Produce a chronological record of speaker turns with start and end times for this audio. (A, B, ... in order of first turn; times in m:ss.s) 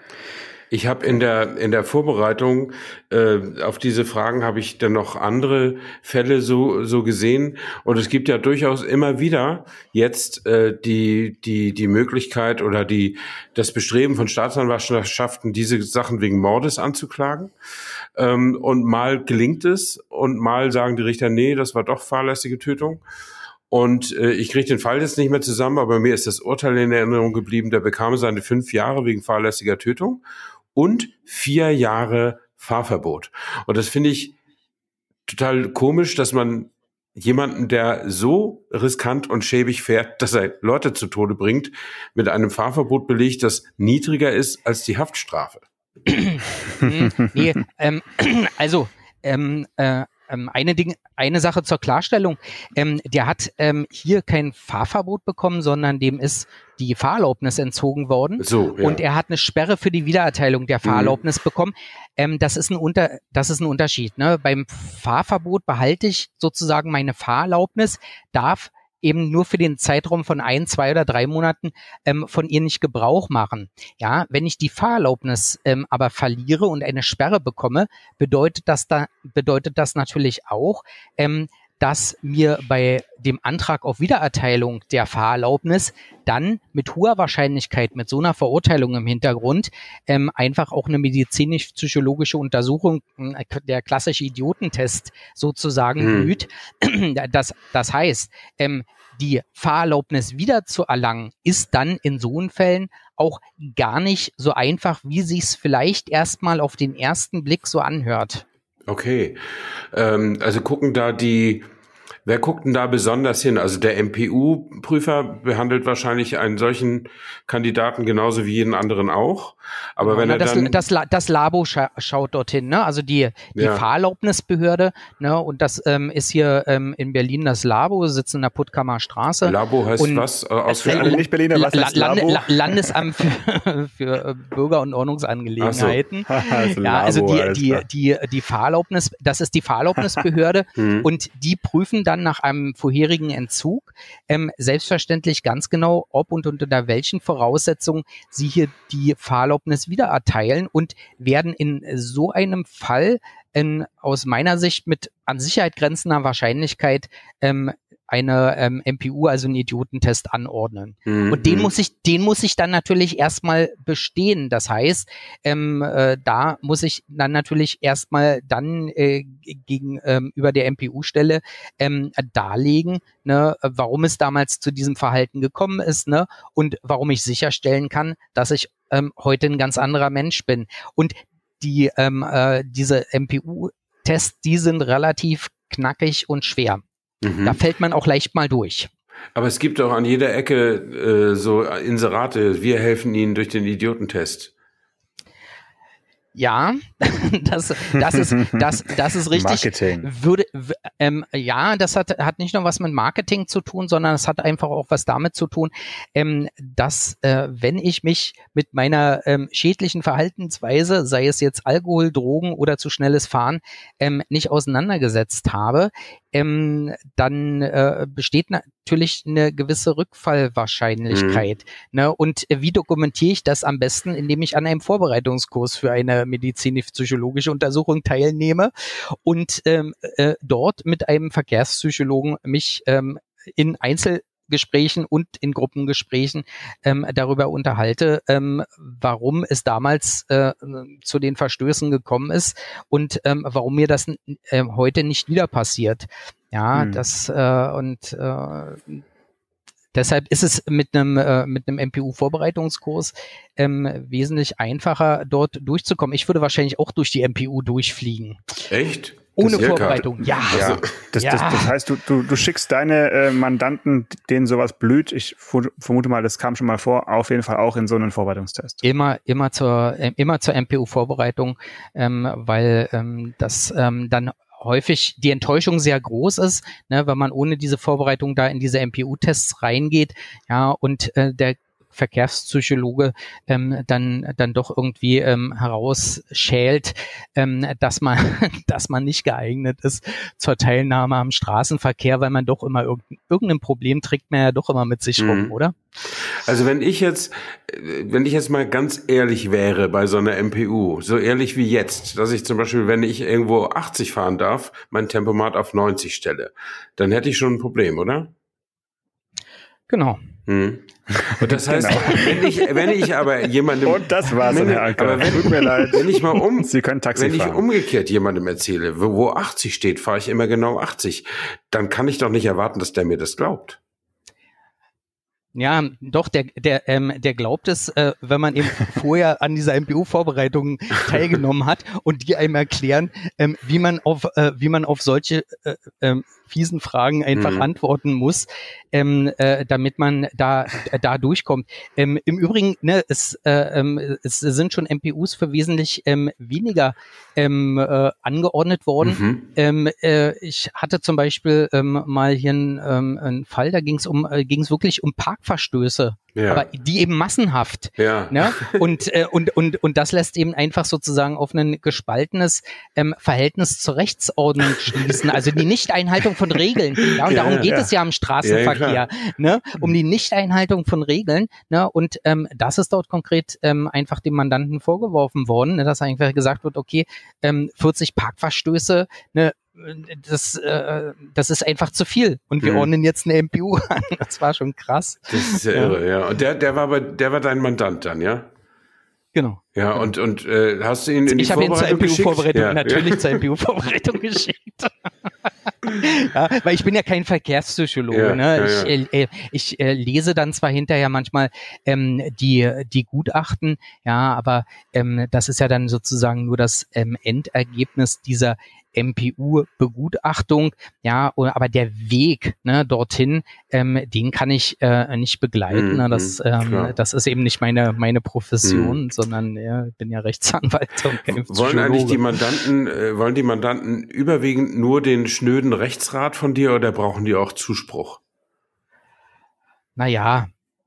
0:00.7-0:17.5 A
0:18.2-0:23.0 A
0:23.7-0:30.2 A
0:30.7-0:34.3 A
0:35.3-0:45.6 A
0:46.1-1:48.4 B
0:58.4-0:59.0 A
1:00.8-1:01.2 A
1:36.0-1:36.3 A
1:48.9-1:49.4 A
1:49.9-1:51.6 A
1:52.2-2:00.8 A
2:00.0-2:10.2 B
2:03.6-2:03.8 A
2:09.4-2:11.2 A
2:10.7-2:13.0 C
2:10.8-3:06.8 B
2:15.6-2:16.0 A
2:16.3-2:17.8 C
2:20.8-2:21.1 A
2:41.0-2:41.7 A
3:07.2-3:07.6 A
3:07.4-3:08.9 B
3:09.3-3:14.5 A
3:16.3-4:09.0 B
3:18.0-3:18.7 C
3:19.3-3:20.1 C
3:41.1-3:41.4 A
4:06.7-4:07.0 C
4:09.9-4:18.6 B
4:18.7-4:20.9 A
4:19.4-4:21.7 B
4:19.5-4:28.8 C
4:28.8-4:55.7 B
4:55.2-4:55.5 A
4:56.0-5:08.3 A
5:09.9-5:10.2 B
5:10.5-5:23.8 A
5:11.3-5:12.4 C
5:12.0-5:12.3 B
5:13.8-5:17.6 C
5:25.5-6:26.0 B
5:37.3-5:37.7 A
5:49.0-5:49.4 A
5:56.3-5:56.6 A
5:58.0-5:58.8 A
6:07.2-6:07.7 A
6:07.6-6:07.9 C
6:08.4-6:09.0 A
6:22.6-6:22.9 A
6:25.3-6:28.5 A
6:29.3-6:29.6 B
6:29.7-6:33.4 A
6:31.3-7:02.2 B
6:38.1-6:38.9 A
6:55.7-6:56.9 A
6:58.6-6:59.0 A
7:01.5-7:08.2 A
7:10.0-7:10.5 B